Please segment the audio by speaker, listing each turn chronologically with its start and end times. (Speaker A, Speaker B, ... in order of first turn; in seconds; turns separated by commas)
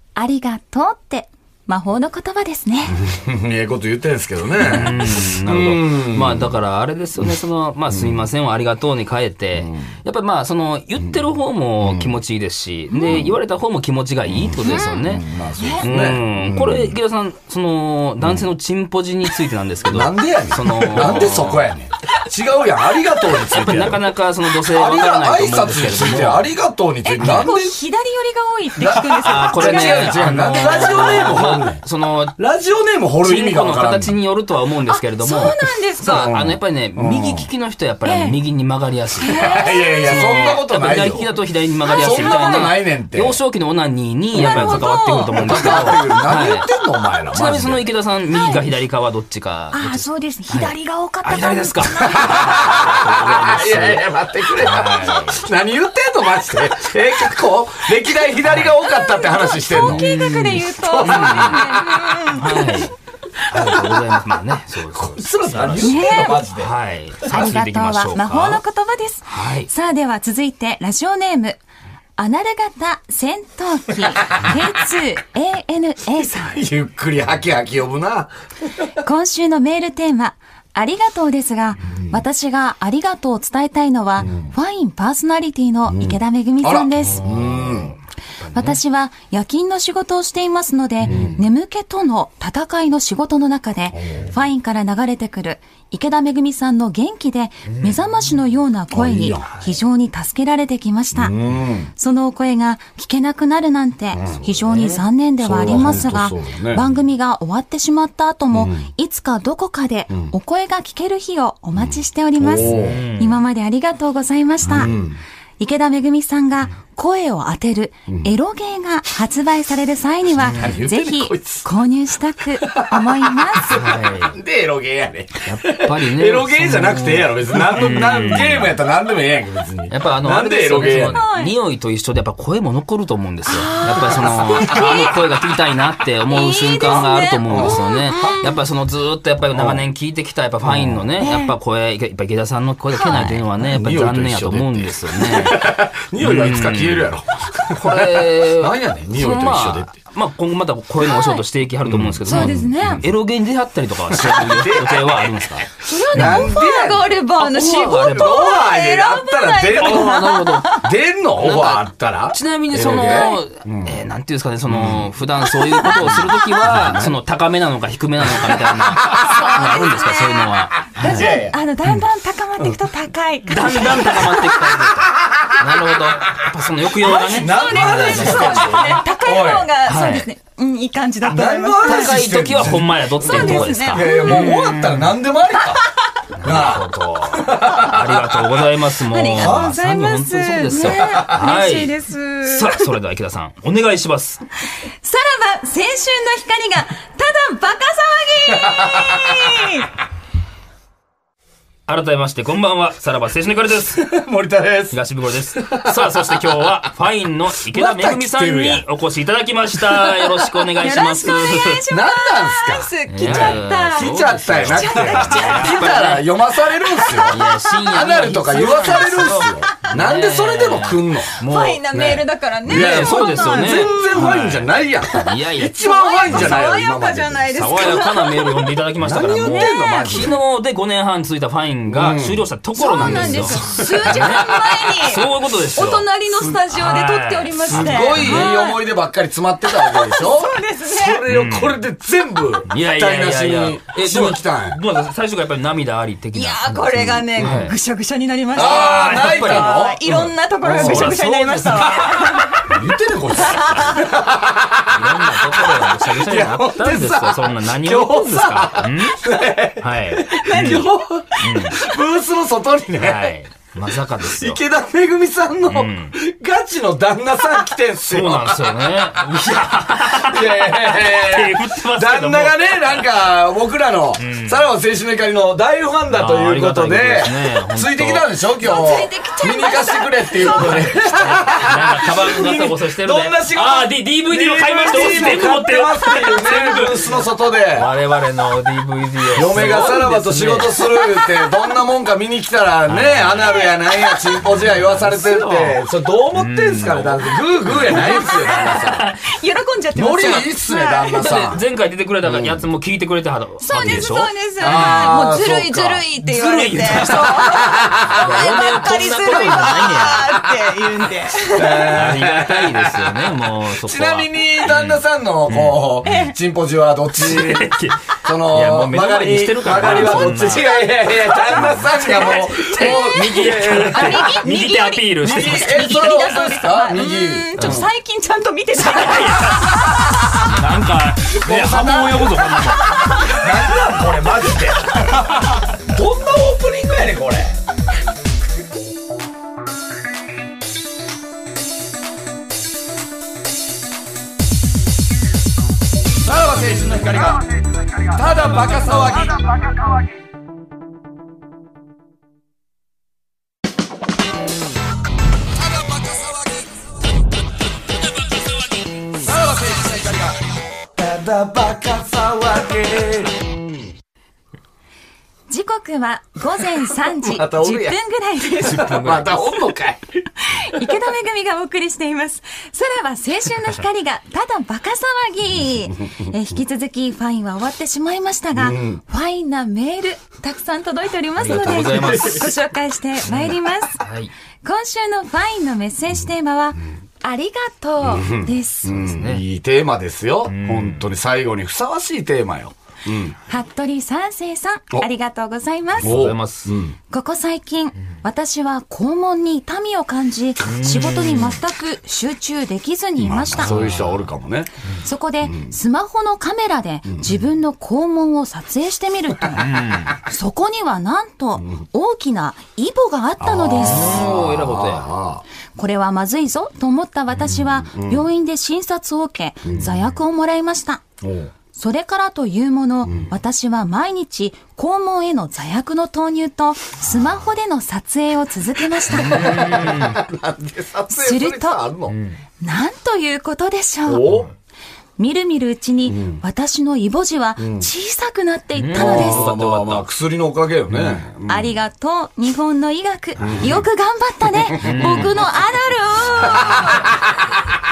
Speaker A: 0.1-3.0, Speaker B: 3.0-6.5, Speaker C: 4.6-15.2, Speaker B: 7.9-8.2, Speaker B: 9.6-9.9, Speaker B: 11.8-12.2, Speaker A: 12.9-13.2, Speaker B: 13.1-13.4, Speaker B: 14.3-16.9, Speaker A: 14.6-15.8, Speaker C: 15.8-21.7, Speaker B: 18.2-18.5, Speaker B: 19.9-24.1, Speaker C: 23.4-26.5, Speaker B: 24.6-27.8, Speaker A: 27.0-31.4, Speaker C: 27.2-27.5, Speaker B: 28.8-31.8, Speaker C: 28.9-32.3, Speaker B: 32.4-34.1, Speaker C: 33.2-46.7, Speaker A: 34.9-36.3, Speaker B: 35.2-37.5, Speaker A: 38.0-38.4, Speaker A: 39.2-40.6, Speaker B: 39.3-41.3, Speaker A: 41.8-42.7, Speaker B: 42.0-43.4, Speaker A: 44.3-46.3, Speaker B: 44.4-47.9, Speaker C: 47.3-50.7, Speaker A: 48.3-48.6, Speaker A: 49.7-52.7, Speaker C: 51.2-55.4, Speaker B: 52.1-62.1, Speaker C: 58.4-58.7, Speaker A: 58.8-62.9, Speaker C: 59.8-60.2, Speaker C: 61.0-61.6, Speaker C: 62.3-62.9, Speaker C: 63.5-68.6, Speaker B: 63.5-63.9, Speaker B: 64.9-66.7, Speaker A: 65.8-66.4, Speaker B: 67.2-67.6, Speaker A: 67.3-71.6, Speaker C: 69.3-69.7, Speaker A: 72.2-76.6, Speaker B: 76.2-78.3, Speaker A: 79.0-87.3, Speaker B: 85.9-88.0, Speaker C: 87.2-88.8, Speaker A: 88.5-101.3, Speaker C: 91.0-91.3, Speaker B: 91.0-91.4, Speaker B: 93.9-94.3, Speaker C: 97.7-98.0, Speaker B: 98.9-99.5, Speaker B: 101.1-101.9, Speaker A: 102.0-115.0, Speaker B: 104.1-104.4, Speaker C: 104.4-105.0, Speaker B: 105.4-106.8, Speaker B: 108.5-108.9, Speaker B: 111.8-113.0, Speaker C: 112.6-113.4, Speaker B: 114.7-115.2, Speaker A: 115.6-123.9, Speaker B: 120.4-121.7, Speaker C: 120.4-120.7, Speaker B: 122.6-131.2, Speaker C: 123.7-124.4, Speaker C: 125.4-128.8, Speaker C: 129.9-145.6, Speaker A: 131.1-131.5, Speaker A: 133.4-135.2, Speaker B: 133.9-135.1, Speaker A: 136.3-138.5, Speaker B: 136.8-138.4, Speaker B: 139.5-139.8, Speaker B: 140.6-141.1, Speaker A: 141.2-141.5, Speaker A: 142.9-143.4, Speaker B: 143.6-149.9, Speaker C: 146.2-147.1, Speaker C: 147.7-156.5, Speaker A: 151.0-151.4, Speaker B: 151.8-153.1, Speaker A: 152.3-153.0, Speaker B: 154.1-155.5, Speaker A: 155.8-160.8, Speaker B: 156.1-157.2, Speaker C: 157.4-158.4, Speaker B: 157.8-164.0, Speaker C: 159.8-160.8, Speaker C: 161.4-171.3, Speaker A: 163.1-163.3, Speaker B: 164.7-165.1, Speaker A: 165.7-166.0, Speaker B: 165.8-167.2, Speaker B: 168.3-169.2, Speaker A: 169.1-174.6, Speaker B: 171.0-171.6, Speaker C: 173.5-179.0, Speaker B: 175.2-175.6, Speaker A: 177.0-182.2, Speaker B: 177.1-179.7, Speaker C: 179.8-180.3, Speaker B: 181.3-185.8, Speaker C: 181.8-185.2, Speaker A: 183.2-184.7, Speaker A: 185.6-185.9, Speaker C: 186.4-194.4, Speaker B: 186.4-188.6, Speaker A: 189.1-192.8, Speaker B: 189.3-189.8, Speaker B: 190.9-191.2, Speaker A: 195.0-199.9, Speaker B: 198.7-199.3, Speaker C: 201.9-204.0, Speaker B: 203.9-205.0, Speaker C: 204.9-211.8, Speaker B: 205.5-206.7, Speaker B: 207.6-208.8, Speaker A: 210.8-216.2, Speaker B: 211.9-228.0, Speaker C: 213.1-216.3, Speaker A: 216.8-217.5, Speaker C: 217.3-221.8, Speaker A: 218.7-219.9, Speaker A: 221.4-224.2, Speaker C: 222.6-226.7, Speaker A: 225.8-230.3, Speaker C: 227.5-236.1, Speaker B: 229.0-230.4, Speaker B: 231.9-232.4, Speaker A: 232.7-238.8, Speaker B: 233.0-234.5, Speaker C: 236.7-238.6, Speaker B: 237.7-244.8, Speaker A: 239.7-241.2, Speaker C: 241.3-241.8, Speaker C: 242.7-247.7, Speaker A: 246.3-252.6, Speaker B: 247.4-247.7, Speaker B: 248.5-250.0, Speaker C: 248.6-252.6, Speaker B: 250.6-251.2, Speaker B: 252.6-263.3, Speaker A: 253.4-254.0, Speaker C: 254.9-259.2, Speaker C: 259.8-260.9, Speaker A: 260.5-260.8, Speaker C: 261.4-261.8, Speaker C: 263.0-264.6, Speaker B: 264.2-269.3, Speaker C: 265.7-266.1, Speaker C: 268.1-273.0, Speaker B: 270.1-287.9, Speaker C: 274.2-274.6, Speaker C: 276.1-278.2, Speaker A: 278.6-281.4, Speaker C: 280.7-287.1, Speaker C: 287.7-290.8, Speaker B: 289.3-299.1, Speaker A: 290.9-291.7, Speaker C: 292.9-293.7, Speaker A: 293.4-294.3, Speaker C: 294.4-295.8, Speaker C: 296.3-299.2, Speaker A: 297.9-298.7, Speaker A: 299.2-301.3, Speaker B: 299.9-301.6, Speaker C: 301.1-305.1, Speaker B: 302.2-302.6, Speaker A: 303.6-312.0, Speaker B: 304.6-306.0, Speaker C: 306.2-307.4, Speaker B: 307.4-308.2, Speaker C: 308.1-310.5, Speaker B: 311.5-317.7, Speaker C: 311.6-316.1, Speaker A: 316.0-316.3, Speaker C: 317.2-326.5, Speaker B: 318.2-327.9, Speaker A: 321.3-330.4, Speaker C: 327.6-327.8, Speaker C: 328.7-333.3, Speaker B: 331.4-332.5, Speaker A: 332.6-333.4, Speaker B: 333.2-337.6, Speaker B: 346.2-349.7, Speaker B: 355.8-356.6, Speaker B: 359.1-360.4, Speaker B: 360.9-363.7, Speaker A: 365.5-369.0, Speaker B: 367.0-368.0, Speaker C: 368.6-369.4, Speaker B: 368.7-370.2, Speaker A: 370.4-384.0, Speaker B: 378.6-379.0, Speaker C: 381.4-382.5, Speaker B: 381.4-382.5, Speaker C: 383.2-384.3, Speaker A: 384.6-389.0, Speaker B: 388.0-393.4, Speaker C: 388.9-389.4, Speaker C: 390.4-391.1, Speaker A: 393.4-396.1, Speaker C: 396.0-396.7, Speaker B: 396.0-396.9, Speaker A: 397.1-403.7, Speaker C: 400.6-401.6, Speaker B: 403.2-404.7, Speaker C: 403.6-404.3, Speaker A: 405.0-414.3, Speaker B: 405.4-405.7, Speaker C: 409.5-410.1, Speaker B: 413.4-415.4, Speaker C: 413.8-415.1, Speaker A: 415.8-421.0, Speaker B: 417.8-418.2, Speaker B: 419.6-419.9, Speaker B: 421.2-421.5, Speaker A: 421.7-429.8, Speaker C: 429.1-430.2, Speaker B: 429.1-432.2, Speaker A: 431.1-431.8, Speaker C: 432.1-432.4, Speaker A: 432.6-434.2, Speaker B: 434.1-434.5, Speaker C: 434.2-434.5, Speaker A: 435.2-439.5, Speaker B: 436.1-436.4, Speaker B: 437.6-437.9, Speaker C: 438.8-440.1, Speaker B: 438.9-441.7, Speaker C: 440.9-441.2, Speaker A: 441.5-447.1, Speaker C: 443.4-443.7, Speaker B: 443.4-443.8, Speaker B: 444.7-445.3, Speaker C: 444.8-445.4, Speaker C: 446.3-447.1, Speaker B: 446.4-447.6